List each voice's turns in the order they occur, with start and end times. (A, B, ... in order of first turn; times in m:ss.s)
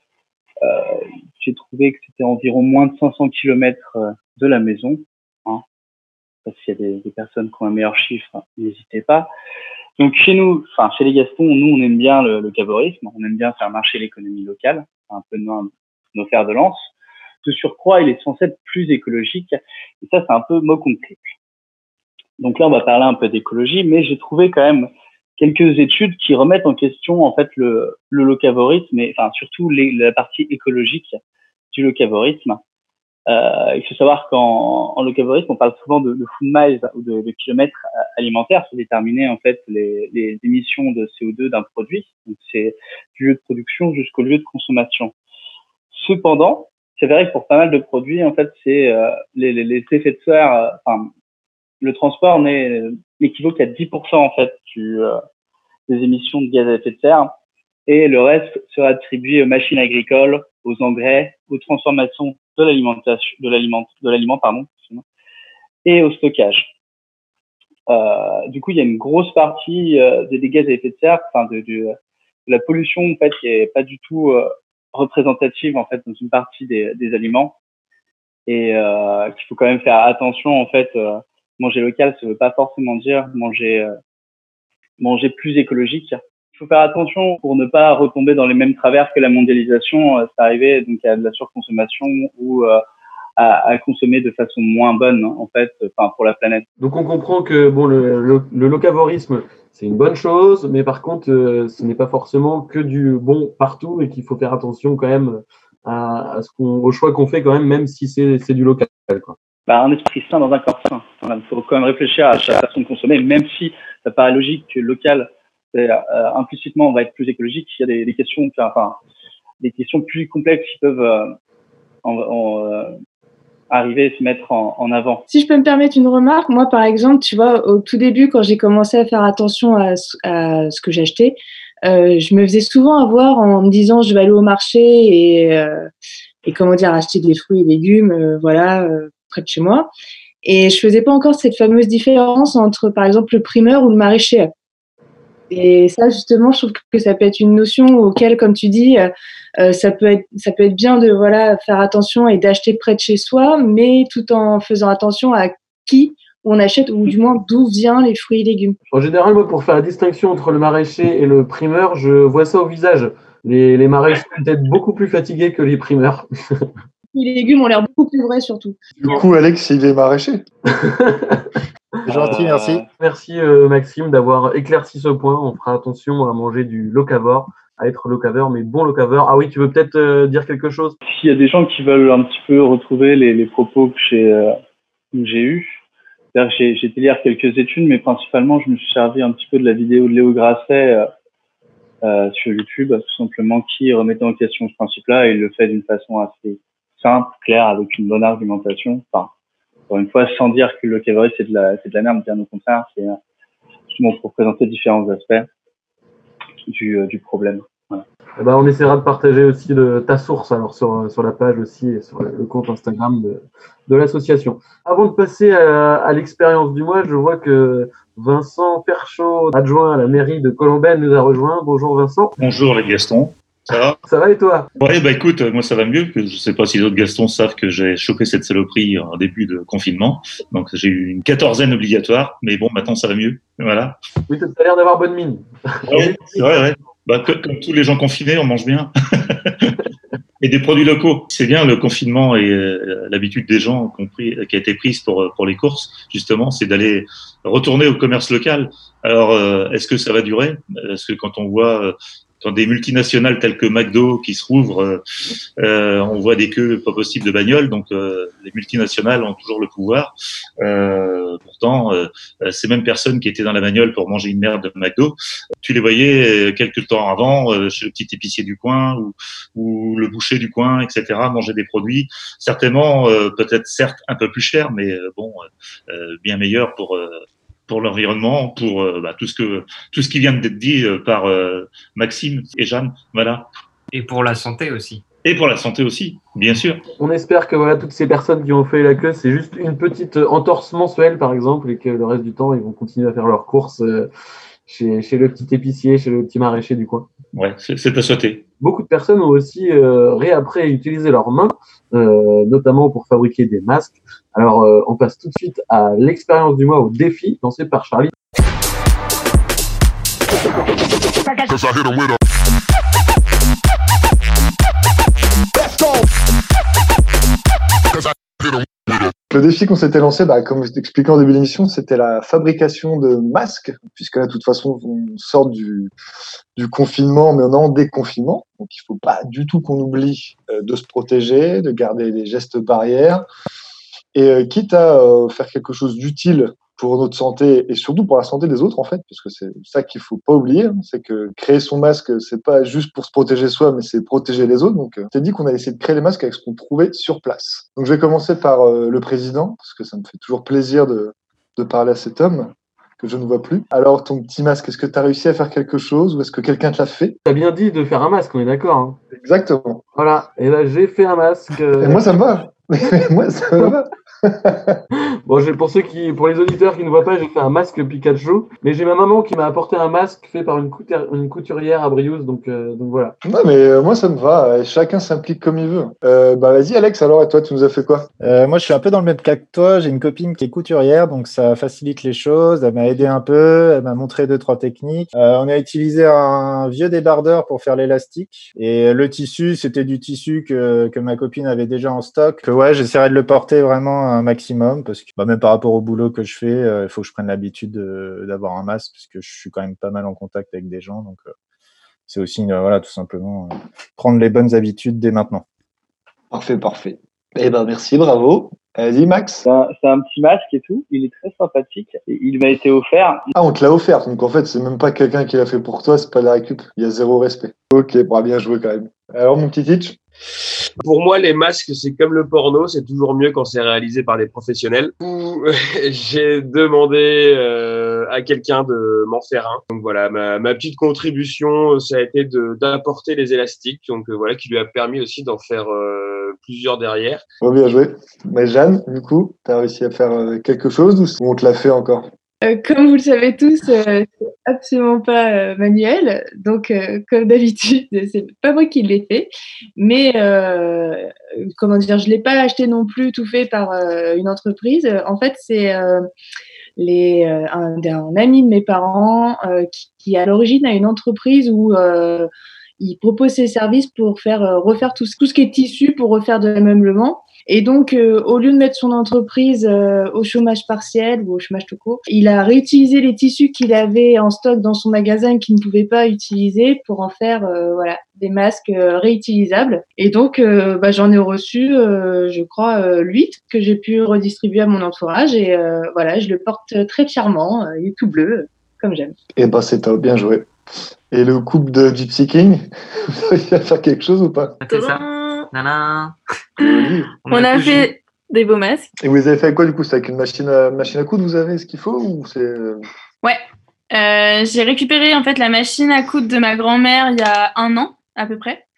0:00.6-0:05.6 A
0:06.5-0:09.3 A
0:10.0-0:16.9 A
0:17.4-0:21.3 A
0:22.4-0:31.2 A
0:31.7-0:32.6 A
0:33.3-0:45.1 A
0:45.9-0:51.1 A
0:51.8-0:55.2 A
0:55.9-0:57.3 A
0:57.9-1:05.0 A
1:05.8-1:06.7 A
1:07.9-1:12.0 A
1:12.5-1:17.6 A
1:18.5-1:23.9 A
1:25.0-1:32.8 A
1:33.4-1:36.7 A
1:36.8-1:49.4 B
1:49.7-1:59.0 A
1:59.6-2:01.3 A
2:02.0-2:02.9 A
2:03.7-2:05.2 A
2:05.3-2:15.9 C
2:16.4-2:19.9 C
2:20.4-2:24.5 C
2:25.5-2:38.8 C
2:38.9-2:46.7 B
2:47.1-2:48.8 C
2:49.0-2:50.4 D
2:50.7-2:51.5 B
2:52.1-2:52.8 E
2:52.1-2:52.8 A
2:53.0-3:01.0 B
3:01.1-3:04.5 A
3:05.1-3:05.8 A
3:06.3-3:11.1 A
3:12.0-3:19.3 A
3:19.9-3:23.2 A
3:23.9-3:25.5 A
3:26.7-3:28.0 A
3:28.4-3:42.4 B
3:42.4-3:44.0 F
3:44.1-3:44.7 B
3:44.8-3:54.0 F
3:54.3-3:56.4 B
3:55.9-3:59.8 F
4:00.4-4:15.0 F
4:15.6-4:43.5 F
4:43.9-4:45.0 G
4:45.2-4:46.8 F
4:47.0-4:54.1 B
4:54.7-4:57.1 B
4:57.3-4:58.4 F
4:58.6-5:08.1 B
5:19.3-5:25.9 D
5:26.6-5:33.2 D
5:34.1-5:57.2 D
5:57.3-5:59.0 B
5:59.1-5:59.8 D
6:00.0-6:02.2 B
6:01.8-6:04.8 D
6:05.3-6:13.2 B
6:13.2-6:18.1 D
6:18.2-6:41.3 E
6:42.1-6:45.4 E
6:46.3-6:49.4 D
6:49.4-6:53.3 A
6:53.4-7:00.0 D
7:00.8-7:17.2 H
7:17.4-7:22.1 D
7:22.4-7:36.1 C
7:36.8-7:42.3 C
7:42.8-8:09.2 C
8:09.4-8:10.5 D
8:11.1-8:14.6 D
8:14.6-8:16.2 G
8:14.7-8:15.5 I
8:16.6-8:17.1 D
8:16.6-8:18.9 I
8:17.2-8:17.9 G
8:19.0-8:22.8 D
8:23.2-8:28.6 I